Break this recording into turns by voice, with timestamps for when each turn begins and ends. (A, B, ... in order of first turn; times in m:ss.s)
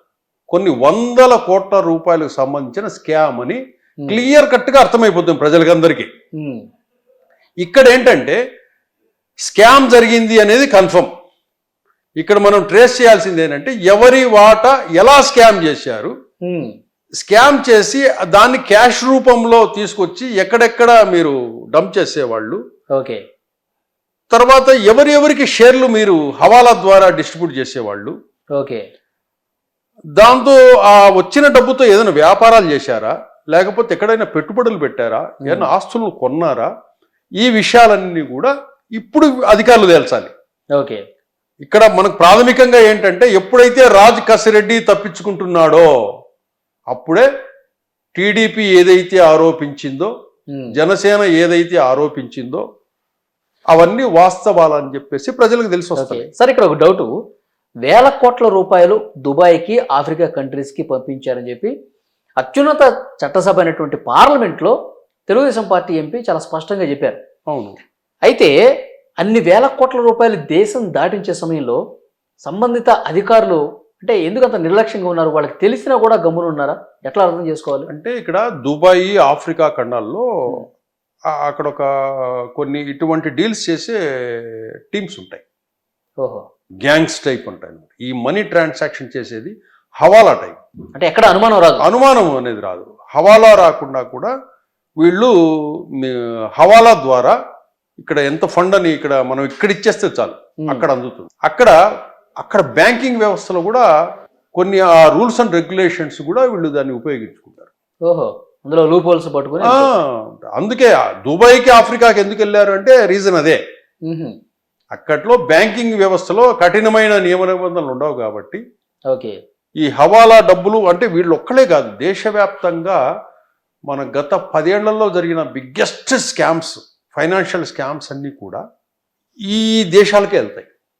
0:00.5-0:06.1 A
0:06.4-0:06.6 B
0:07.6-0:08.4 A
0:09.4-0:11.1 A
0:12.2-0:16.1 A
0:16.4-0:16.7 B
0:17.2-0:22.6 A
0:22.9-0:23.2 B
0:24.3-0:28.1 A
0:28.6-0:28.8 B
0:30.2-0:36.7 A
0:37.4-0:40.3 A
0:40.7-0:41.0 B
0:41.6-0:45.9 A
0:46.9-0:47.2 A
0:48.1-0:50.1 A
0:50.7-0:52.6 A
0:53.7-0:56.2 A
0:56.0-0:57.1 B
0:57.8-1:01.7 B
1:02.4-1:04.8 B
1:05.3-1:07.2 B
1:07.5-1:07.8 A
1:08.2-1:08.5 B
1:09.2-1:11.8 B
1:12.4-1:17.9 B
1:17.9-1:20.6 A
1:21.3-1:25.4 A
1:26.2-1:26.4 B
1:26.8-1:30.6 A
1:30.9-1:31.8 B
1:31.8-1:34.3 A
1:35.0-1:37.4 A
1:38.0-1:41.7 A
1:42.4-1:43.9 A
1:44.5-1:47.7 A
1:48.1-1:49.9 B
1:49.6-1:53.6 A
1:54.1-1:54.3 B
1:54.9-1:58.6 A
1:59.1-1:59.4 B
1:59.8-2:03.0 A
2:03.9-2:08.6 A
2:09.5-2:10.7 A